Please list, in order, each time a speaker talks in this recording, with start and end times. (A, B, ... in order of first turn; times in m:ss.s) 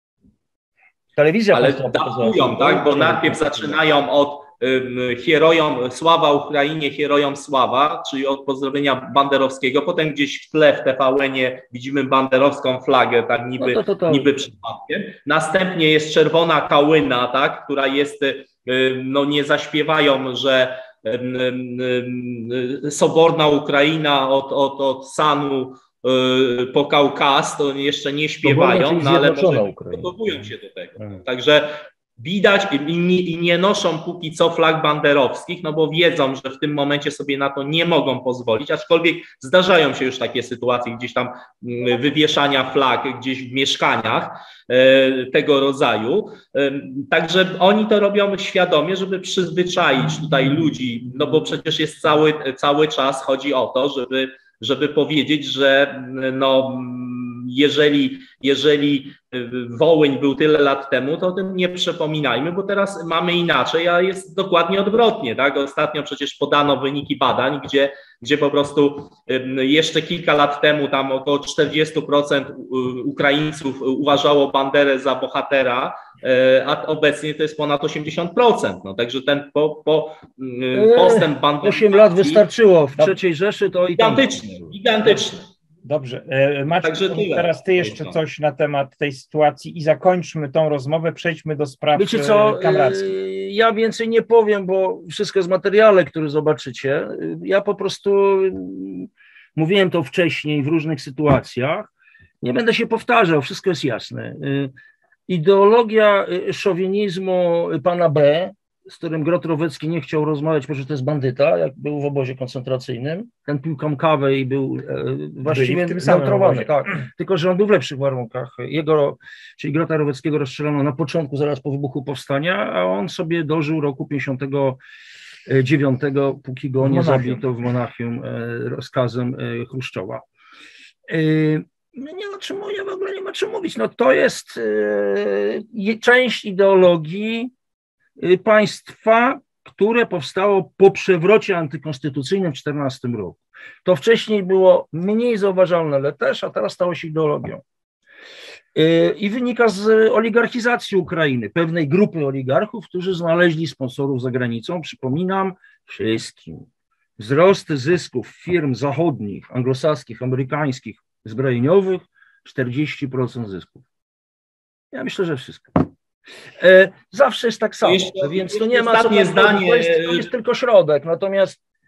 0:01.2-0:03.8 A
0:01.5-1:22.4 B
0:13.6-0:14.3 A
0:28.4-0:30.2 A
1:20.7-1:24.7 A
1:24.0-1:25.5 B
1:25.8-1:33.1 C
1:26.8-1:28.2 B
1:32.0-1:41.9 A
1:42.4-1:44.7 A
1:45.3-2:04.8 A
1:55.4-1:57.0 C
2:05.5-2:10.2 A
2:06.8-2:07.5 C
2:11.1-2:17.5 A
2:18.2-2:27.6 A
2:28.8-2:36.7 A
2:37.2-2:43.8 A
2:44.9-2:45.9 A
2:46.6-2:51.6 A
2:47.8-2:50.3 B